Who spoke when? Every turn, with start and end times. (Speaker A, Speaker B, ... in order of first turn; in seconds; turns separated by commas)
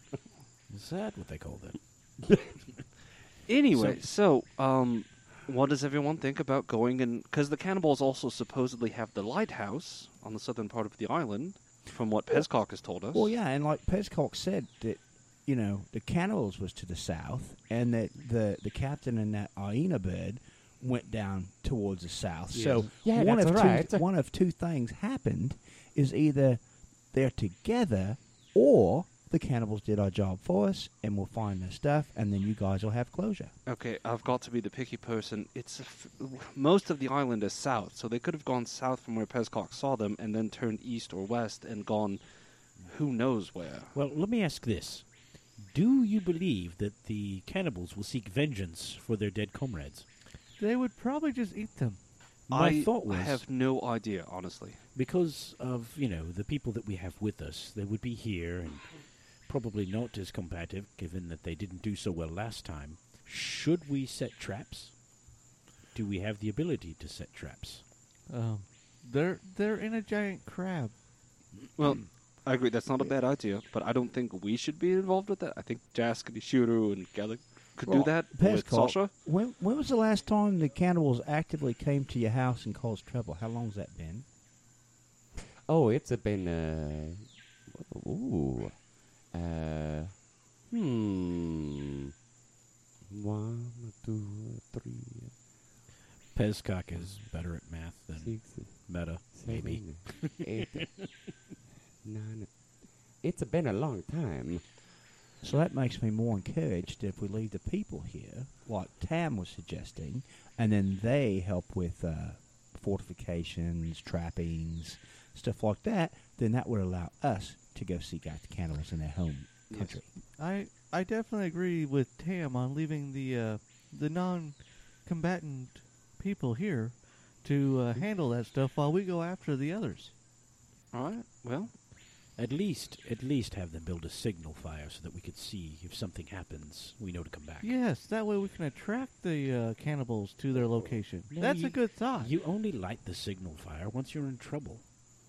Speaker A: 0.7-1.8, Speaker B: 3.5-13.3, Speaker A: 3.7-4.0, Speaker C: 13.1-33.5, Speaker A: 22.5-22.9, Speaker D: 23.0-24.0, Speaker B: 33.7-43.9, Speaker A: 43.9-50.1, Speaker E: 50.6-52.0, Speaker A: 52.5-53.4, Speaker B: 52.5-54.8, Speaker A: 54.9-65.0, Speaker A: 65.9-67.8, Speaker E: 68.3-71.0, Speaker B: 71.8-79.1, Speaker C: 77.8-84.3, Speaker D: 85.7-91.8, Speaker D: 93.1-95.3, Speaker A: 96.3-101.1, Speaker D: 96.9-97.5, Speaker D: 98.1-101.0, Speaker D: 102.0-104.8, Speaker C: 105.4-120.1, Speaker B: 119.7-120.0, Speaker E: 120.3-130.1, Speaker B: 130.9-131.7, Speaker A: 132.4-137.8, Speaker E: 137.6-142.3, Speaker A: 141.3-144.8